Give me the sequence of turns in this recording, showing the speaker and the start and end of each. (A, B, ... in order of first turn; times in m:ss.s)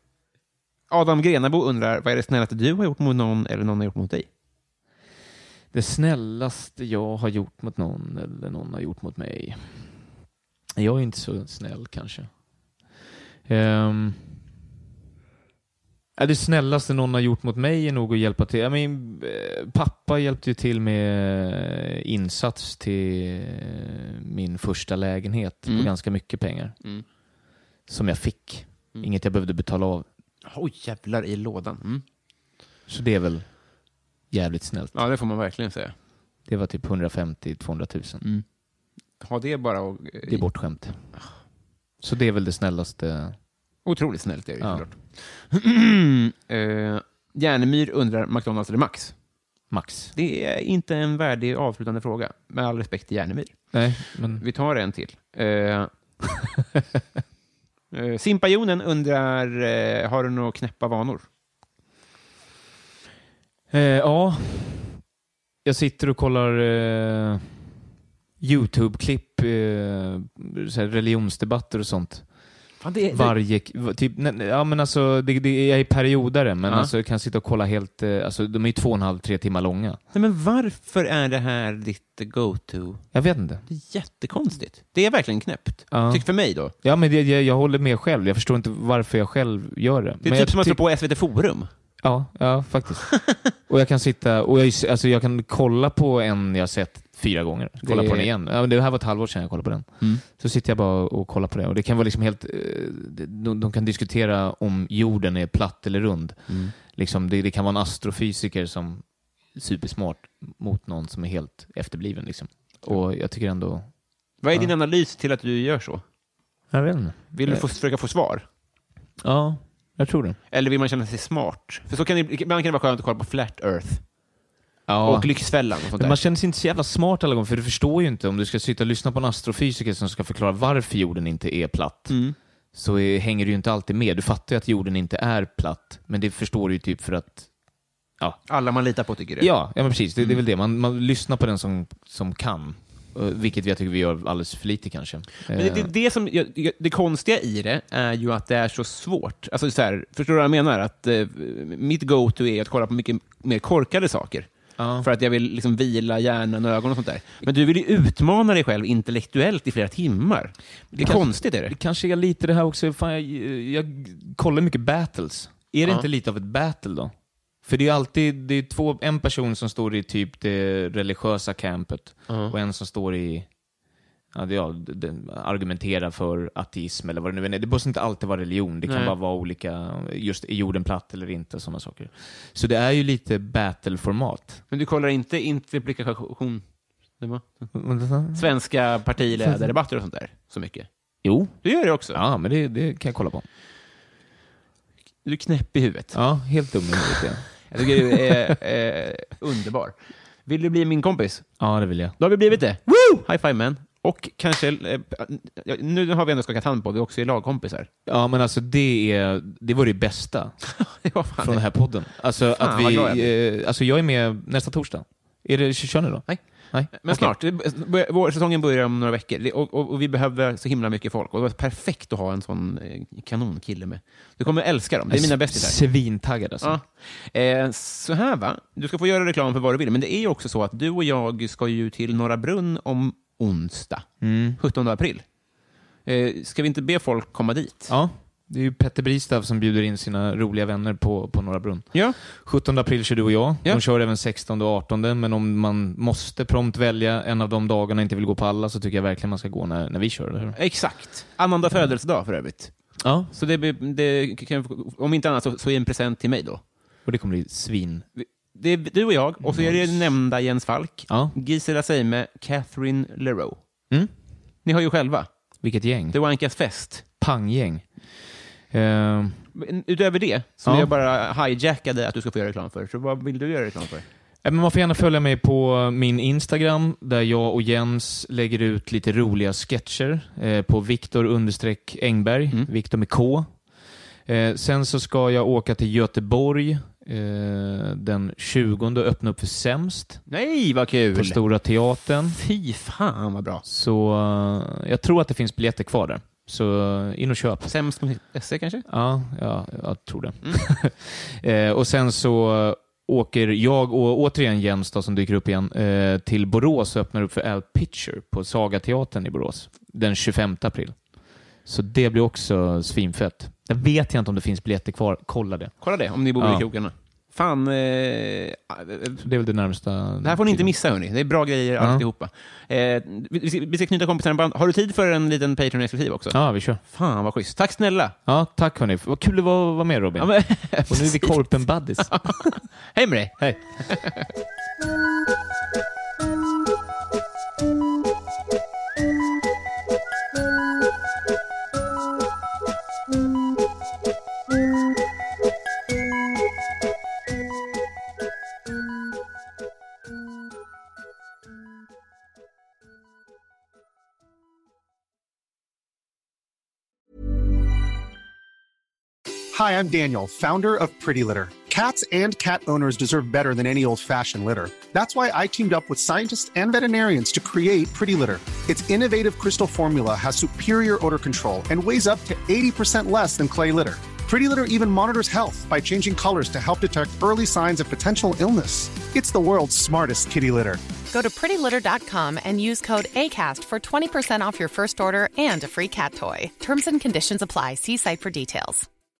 0:00.9-0:04.3 A
0:05.7-0:09.9 B
0:10.8-0:12.3 B
0:13.5-0:14.4 B
0:16.2-0:26.8 B
0:25.6-0:25.9 A
0:27.9-0:30.1 B
0:30.4-0:32.0 A
0:32.9-0:33.7 B
0:34.3-0:35.0 B
0:34.9-0:35.9 A
0:36.4-0:38.2 B
0:39.2-0:40.4 A
0:40.2-0:41.1 B
0:42.0-0:43.4 B
0:43.8-0:49.2 A
0:49.7-0:50.1 B
0:50.2-0:53.7 A
0:53.7-0:54.4 B
0:54.4-0:55.9 A
0:57.9-1:01.2 A
1:03.7-1:05.0 B
1:05.6-1:07.6 B
1:08.4-1:12.3 B
1:12.8-1:13.4 A
1:13.1-1:20.0 B
1:16.6-1:16.9 A
1:20.1-1:23.0 A
1:23.1-1:23.6 B
1:23.7-1:26.7 A
1:25.9-1:30.8 B
1:30.2-1:31.7 A
1:32.0-1:54.7 B
1:37.8-1:38.3 A
1:46.5-1:46.7 A
1:54.4-1:56.0 A
1:56.7-1:57.6 B
1:57.3-1:58.4 A
1:59.2-2:00.4 B
2:00.5-2:04.0 A
2:04.9-2:12.2 B
2:05.0-2:06.2 A
2:12.1-2:12.4 A
2:12.7-2:17.5 B
2:18.5-2:19.5 A
2:19.4-2:25.9 B
2:25.5-2:41.7 A
2:34.8-2:35.1 B
2:40.9-2:53.5 B
2:52.3-2:52.5 A
2:54.3-3:04.6 B
2:58.8-2:59.2 A
3:04.7-3:06.6 A
3:07.2-3:07.8 A
3:07.7-3:08.5 B
3:08.3-3:10.9 A
3:09.2-3:09.7 B
3:11.2-3:13.4 B
3:11.6-3:12.2 A
3:15.2-3:16.2 A
3:16.1-3:18.5 B
3:17.7-3:21.5 A
3:21.6-3:22.2 B
3:22.2-3:27.9 A
3:28.1-3:30.7 B
3:30.8-3:31.6 A
3:31.4-3:37.3 B
3:32.6-3:33.3 A
3:36.3-3:46.1 A
3:45.1-3:46.8 B
3:46.6-3:55.2 A
3:54.2-3:54.6 B
3:56.0-3:57.9 A
3:57.9-4:10.6 B
4:10.6-4:12.7 A
4:13.0-4:13.3 B
4:13.3-4:16.6 A
4:17.0-4:18.1 B
4:18.2-4:23.6 A
4:19.4-4:20.0 B
4:21.1-4:21.4 B
4:24.6-4:25.3 A
4:25.6-4:26.2 B
4:26.1-4:27.0 A
4:27.2-4:29.5 B
4:29.6-4:34.1 A
4:30.6-4:30.9 B
4:34.4-4:43.5 B
4:44.3-4:50.2 B
4:50.3-4:51.4 A
4:51.1-4:52.4 B
4:52.4-4:53.6 A
4:53.6-4:57.7 B
4:57.6-4:58.8 A
4:58.9-5:11.0 B
5:11.6-5:15.7 B
5:15.8-5:19.2 A
5:16.4-5:16.6 B
5:19.2-5:20.7 B
5:20.2-5:28.2 A
5:21.8-5:22.0 B
5:26.3-5:26.8 B
5:28.3-5:32.7 B
5:30.2-5:34.3 A
5:59.5-6:20.8 C
6:21.1-6:28.9 D